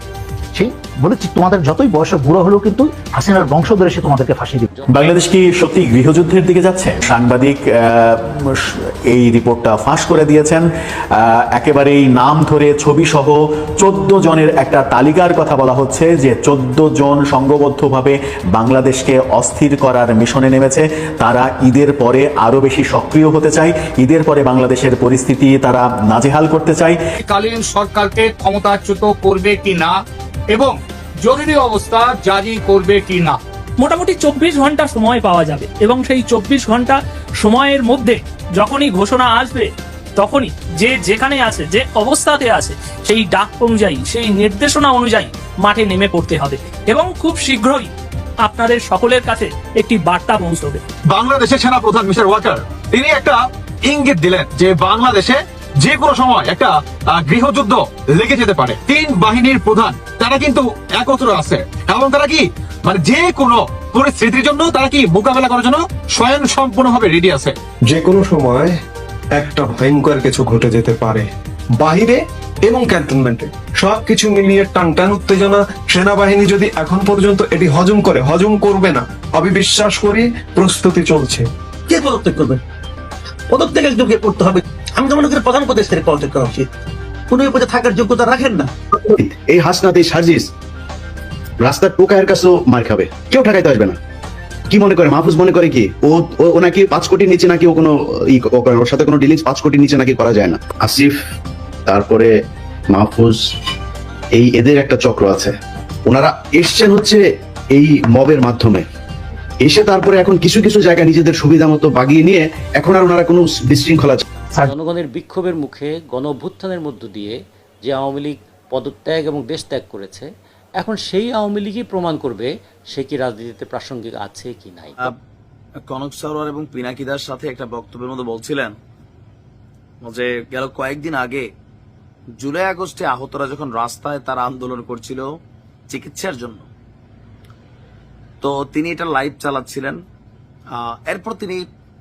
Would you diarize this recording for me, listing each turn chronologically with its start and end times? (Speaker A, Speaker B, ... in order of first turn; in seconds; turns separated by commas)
Speaker A: 0.5-4.7, Speaker B: 4.9-27.0, Speaker C: 27.2-30.0, Speaker C: 30.5-33.4, Speaker D: 33.8-47.9, Speaker D: 48.4-50.8, Speaker E: 51.1-67.5, Speaker F: 67.9-68.8, Speaker F: 69.3-71.3, Speaker F: 71.8-81.5, Speaker G: 81.9-82.6, Speaker G: 83.5-86.7, Speaker G: 87.3-88.7, Speaker H: 89.0-90.5, Speaker H: 91.6-94.0, Speaker H: 94.7-101.2, Speaker H: 101.9-102.3, Speaker H: 102.9-103.5, Speaker H: 104.3-105.5, Speaker H: 106.1-108.8, Speaker H: 109.6-114.2, Speaker I: 114.6-125.0, Speaker J: 125.9-128.8, Speaker J: 130.0-131.5, Speaker J: 132.4-135.3, Speaker J: 135.9-136.7, Speaker J: 138.4-140.0, Speaker J: 140.7-141.7